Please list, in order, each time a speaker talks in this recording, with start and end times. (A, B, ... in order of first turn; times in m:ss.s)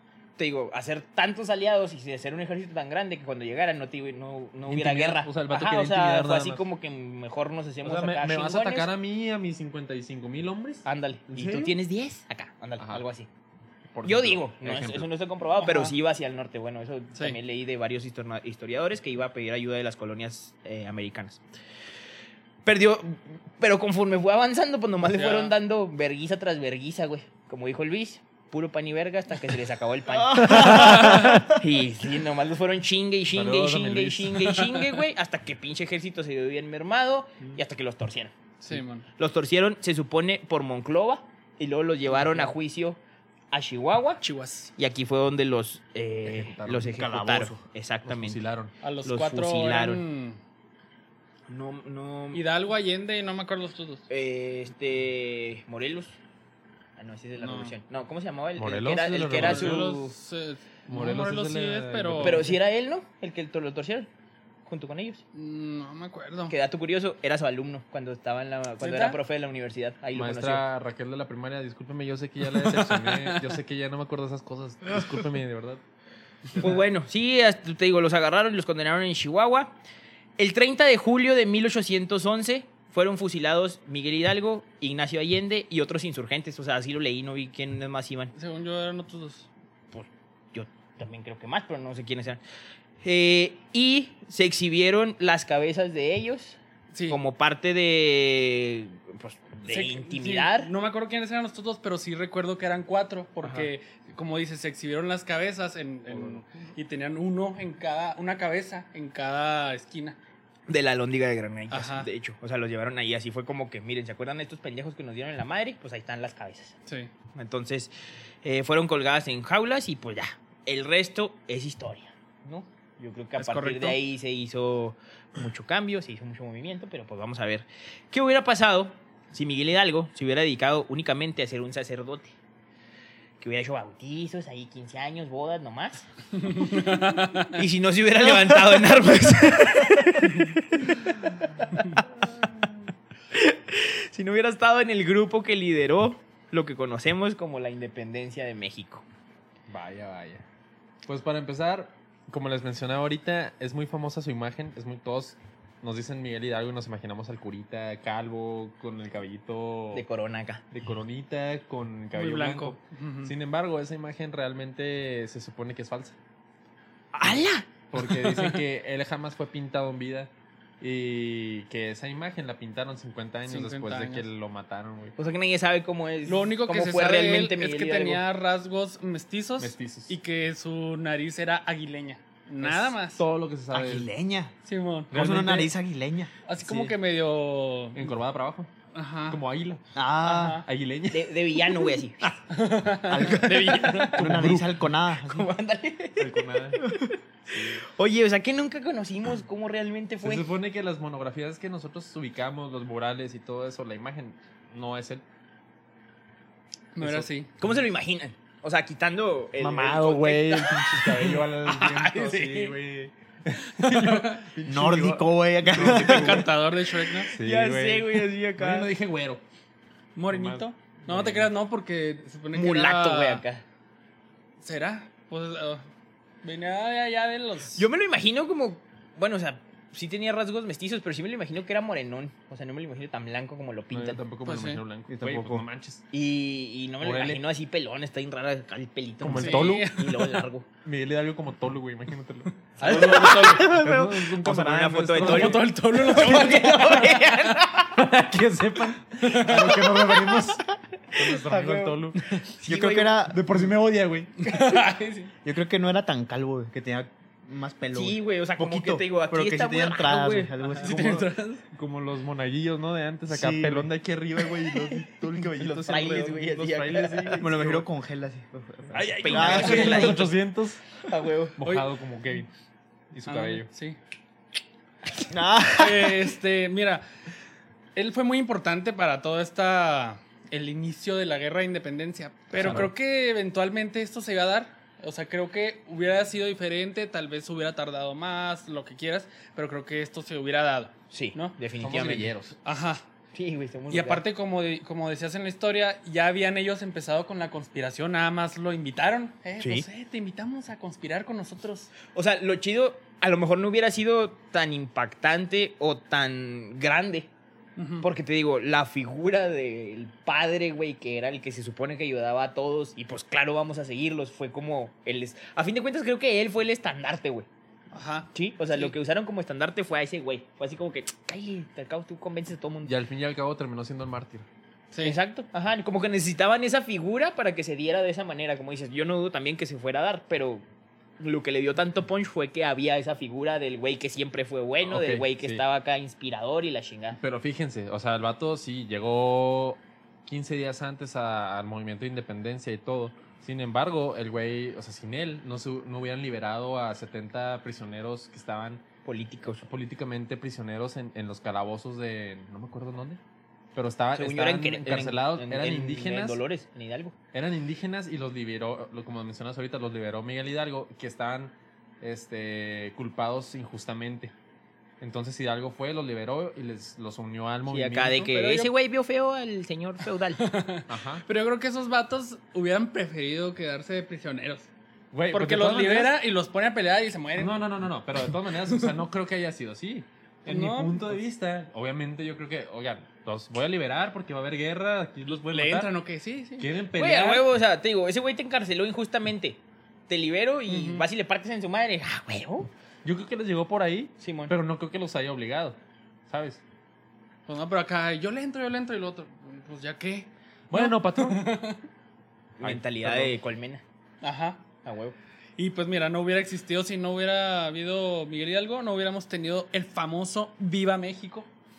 0:00.4-0:08.9 A
0:04.7-0:06.7 B
0:07.8-0:11.8 B
0:10.8-0:13.3 A
0:13.9-0:15.1 B
0:14.0-0:21.4 A
0:15.6-0:16.0 C
0:22.6-0:38.3 A
0:25.0-0:25.5 C
0:30.1-0:31.6 D
0:30.5-0:31.5 B
0:33.3-0:34.6 B
0:34.6-0:34.9 C
0:38.6-0:39.0 C
0:39.2-0:43.0 A
0:42.1-0:42.5 C
0:43.5-0:44.2 A
0:44.2-0:44.7 C
0:44.8-0:48.4 A
0:46.2-0:47.1 B
0:46.9-0:47.6 D
0:48.0-0:48.7 B
0:48.8-0:50.4 C
0:49.0-0:50.0 A
0:51.5-0:52.4 A
0:52.3-0:54.1 C
0:54.1-0:56.2 A
0:57.0-1:00.1 A
0:57.4-0:57.8 C
0:58.6-1:00.0 B
0:59.3-1:02.6 C
1:00.9-1:02.6 B
1:02.2-1:04.1 A
1:04.7-1:05.2 A
1:05.3-1:06.6 C
1:06.5-1:10.6 A
1:08.8-1:09.2 C
1:10.2-1:15.8 B
1:12.5-1:13.5 C
1:16.5-1:16.8 B
1:16.6-1:19.8 A
1:20.4-1:28.3 A
1:28.4-1:29.5 C
1:29.9-1:32.4 A
1:33.0-1:40.7 A
1:36.9-1:37.2 C
1:39.7-1:50.2 C
1:46.1-1:46.8 B
1:50.7-1:56.8 A
1:51.7-1:52.1 C
1:57.4-1:57.9 A
1:58.4-2:12.4 A
2:03.4-2:04.0 C
2:13.4-2:16.1 A
2:16.4-2:17.6 C
2:17.6-2:21.1 A
2:21.7-2:22.0 A
2:23.3-2:29.0 A
2:29.7-2:30.4 B
2:31.1-2:40.0 B
2:39.9-2:40.6 A
2:40.7-2:46.2 B
2:42.1-2:43.3 C
2:47.1-2:48.5 A
2:47.9-2:50.3 B
2:50.8-2:55.2 B
2:53.5-2:54.3 C
2:55.2-2:58.2 A
2:56.3-3:03.2 C
2:59.6-3:00.2 B
3:02.6-3:04.1 B
3:03.7-3:04.5 D
3:04.7-3:05.2 C
3:05.1-3:05.7 B
3:05.1-3:06.3 D
3:06.5-3:08.1 C
3:06.6-3:07.0 B
3:08.0-3:08.7 B
3:08.9-3:09.4 C
3:09.3-3:09.8 B
3:10.0-3:10.6 D
3:10.2-3:10.7 C
3:10.6-3:11.4 B
3:11.1-3:12.3 A
3:12.5-3:14.3 C
3:13.1-3:15.5 D
3:14.2-3:14.8 B
3:15.2-3:17.1 A
3:16.2-3:16.8 B
3:17.5-3:17.8 B
3:17.8-3:20.5 A
3:20.2-3:25.2 B
3:27.0-3:27.5 C
3:27.0-3:27.8 B
3:27.6-3:31.1 A
3:29.6-3:36.5 B
3:31.2-3:32.8 C
3:33.8-3:34.4 C
3:34.6-3:36.5 D
3:35.7-3:37.3 C
3:37.2-3:39.4 B
3:37.4-3:38.9 A
3:40.2-3:43.4 C
3:40.3-3:41.5 B
3:42.5-3:43.6 A
3:44.6-3:45.9 C
3:46.4-3:47.9 C
3:47.7-3:54.2 A
3:53.9-3:56.1 B
3:54.4-3:54.8 C
3:55.1-3:55.6 D
3:56.1-4:00.7 A
3:57.0-3:57.4 B
3:59.2-4:00.1 B
3:59.3-4:00.4 C
4:00.8-4:05.7 B
4:02.8-4:03.7 C
4:02.8-4:07.9 A
4:05.2-4:07.6 C
4:07.9-4:12.2 B
4:09.2-4:10.2 C
4:11.3-4:13.2 A
4:12.6-4:13.6 D
4:13.3-4:14.5 B
4:14.4-4:15.3 C
4:15.4-4:21.3 D
4:17.9-4:20.5 A
4:20.8-4:21.6 C
4:20.8-4:27.8 B
4:23.3-4:23.9 D
4:25.6-4:27.5 A
4:27.4-4:30.2 D
4:28.9-4:30.8 B
4:29.0-4:30.4 A
4:29.4-4:30.0 C
4:31.0-4:31.6 A
4:31.6-4:32.5 B
4:33.1-4:33.7 B
4:33.3-4:34.0 C
4:35.3-4:36.3 D
4:35.7-4:37.0 C
4:38.0-4:51.6 C
4:42.6-4:42.9 B
4:51.1-4:52.3 A
4:51.8-4:52.6 B
4:52.6-4:53.1 C
4:53.3-4:54.2 A
4:53.9-5:01.9 C
4:59.6-4:59.9 A
5:02.1-5:07.3 A
5:07.8-5:08.1 C
5:08.0-5:17.5 A
5:17.9-5:19.0 C
5:18.3-5:22.9 A
5:22.8-5:24.5 B
5:24.9-5:25.2 C
5:25.0-5:30.6 A
5:31.2-5:37.2 A
5:34.9-5:35.6 B
5:37.2-5:48.8 B
5:49.0-5:49.7 A
5:49.6-5:53.2 B
5:53.8-5:56.4 B
5:54.2-5:57.2 A
5:57.3-6:04.3 B
6:05.0-6:08.3 B
6:07.7-6:10.4 A
6:08.2-6:08.7 C
6:10.4-6:14.7 C
6:10.9-6:11.2 B
6:15.1-6:16.2 B
6:15.3-6:17.6 C
6:17.4-6:25.9 B
6:18.6-6:18.9 C
6:20.5-6:21.2 C
6:25.5-6:26.7 C
6:26.6-6:27.4 B
6:27.0-6:32.7 A
6:30.7-6:31.1 C
6:33.0-6:35.8 B
6:34.2-6:34.5 A
6:36.3-6:36.6 B
6:37.5-6:41.8 C
6:40.7-6:41.5 B
6:42.6-6:43.8 A
6:42.6-6:43.3 B
6:44.2-6:44.7 C
6:44.8-6:45.2 A
6:45.6-6:51.5 C